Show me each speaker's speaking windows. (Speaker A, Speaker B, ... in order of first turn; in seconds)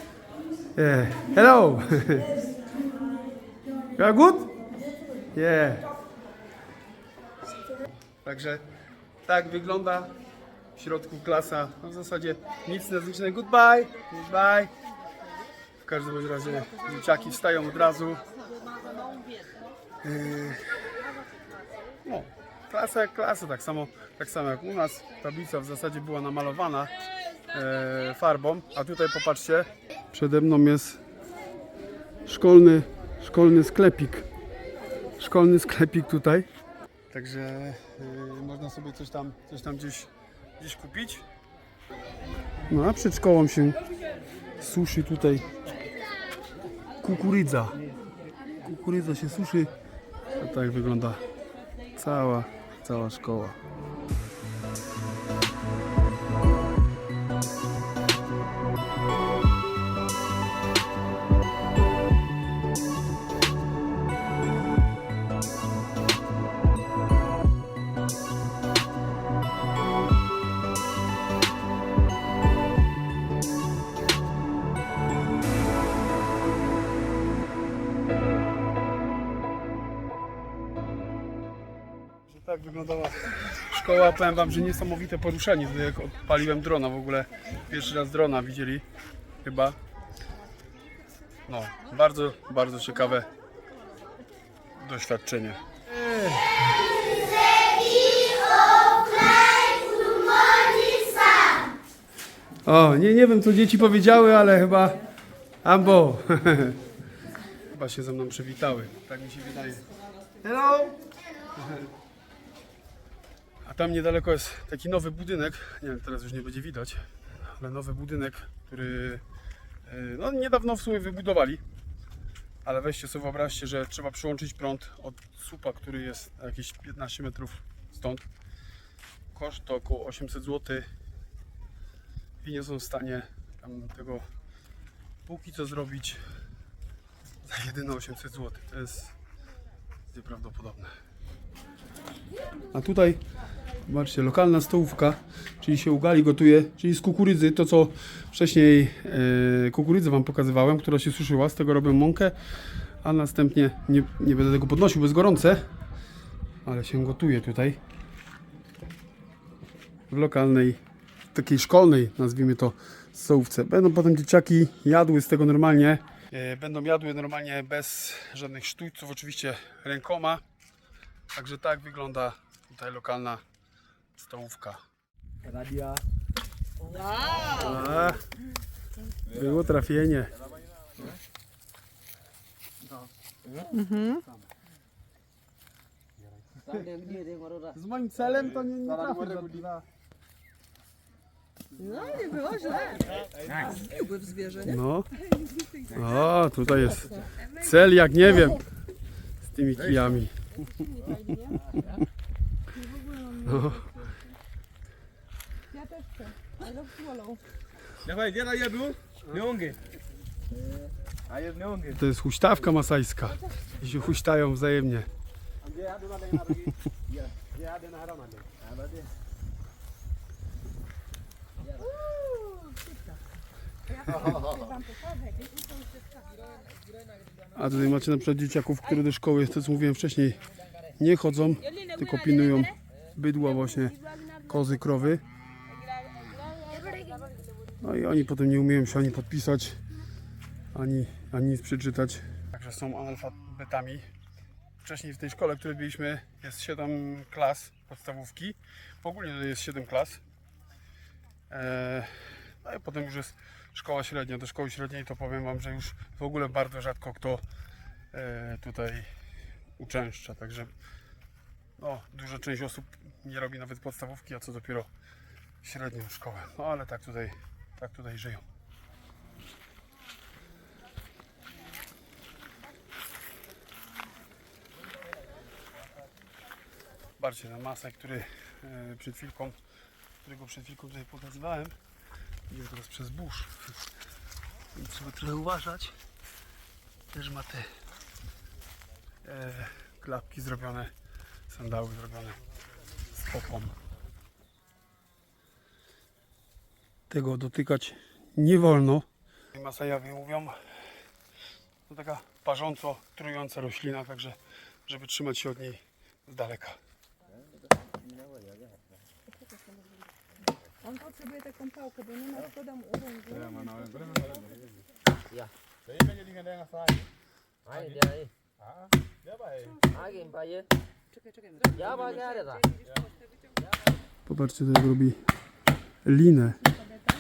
Speaker A: 0.8-2.3, 4.0-4.5, 5.3-5.9, 8.2-8.6, 9.2-10.1, 10.8-14.7, 15.8-18.2, 20.0-20.6, 22.0-26.9, 27.5-31.0, 32.2-34.3, 35.2-36.5, 37.1-41.2, 42.7-43.8, 44.6-45.5, 47.0-47.8, 48.6-49.7, 50.4-51.2, 52.0-53.6, 82.3-88.8, 89.4-89.8, 91.5-93.3, 94.8-96.6, 102.6-105.0, 105.6-106.8, 107.7-109.8, 110.4-111.0, 111.6-111.8, 113.6-119.2, 119.9-121.6, 122.6-128.2, 129.3-130.9, 132.4-134.3, 135.2-136.2, 137.4-139.1, 140.1-140.9, 142.7-143.2, 143.9-152.4, 153.0-155.7, 156.6-157.8, 160.1-160.8, 161.3-170.4, 171.3-173.4, 174.1-174.8, 177.5-178.2, 179.3-180.3, 187.7-189.6, 194.6-195.1, 195.9-198.6, 199.4-200.3, 203.4-203.9, 212.0-215.1, 227.5-230.4, 231.0-235.2, 237.8-239.8, 240.7-244.0, 244.8-250.2, 251.5-257.4, 258.1-259.1, 259.8-260.7, 261.8-264.9, 265.6-268.4, 277.2-279.5, 280.2-281.7, 282.5-283.7, 284.8-286.0, 287.1-287.7, 289.2-290.9, 291.5-292.4, 293.2-293.8, 297.1-300.5, 301.9-306.8, 324.2-325.2, 326.0-326.6
Speaker B: 175.4-176.0, 179.3-179.8, 188.3-189.8, 193.2-193.9, 199.8-200.1, 208.0-209.8, 211.3-212.0, 215.7-218.8, 313.3-314.8, 315.9-317.1, 317.7-318.0, 318.6-319.8
Speaker C: 183.7-184.2, 191.8-193.1, 193.8-194.8, 195.4-195.9, 200.8-201.7, 202.7-204.2, 205.7-207.4, 222.0-222.8, 223.9-225.6, 310.8-314.0
Speaker D: 186.6-187.8, 307.3-309.0, 317.6-318.3, 319.9-320.7, 321.8-322.7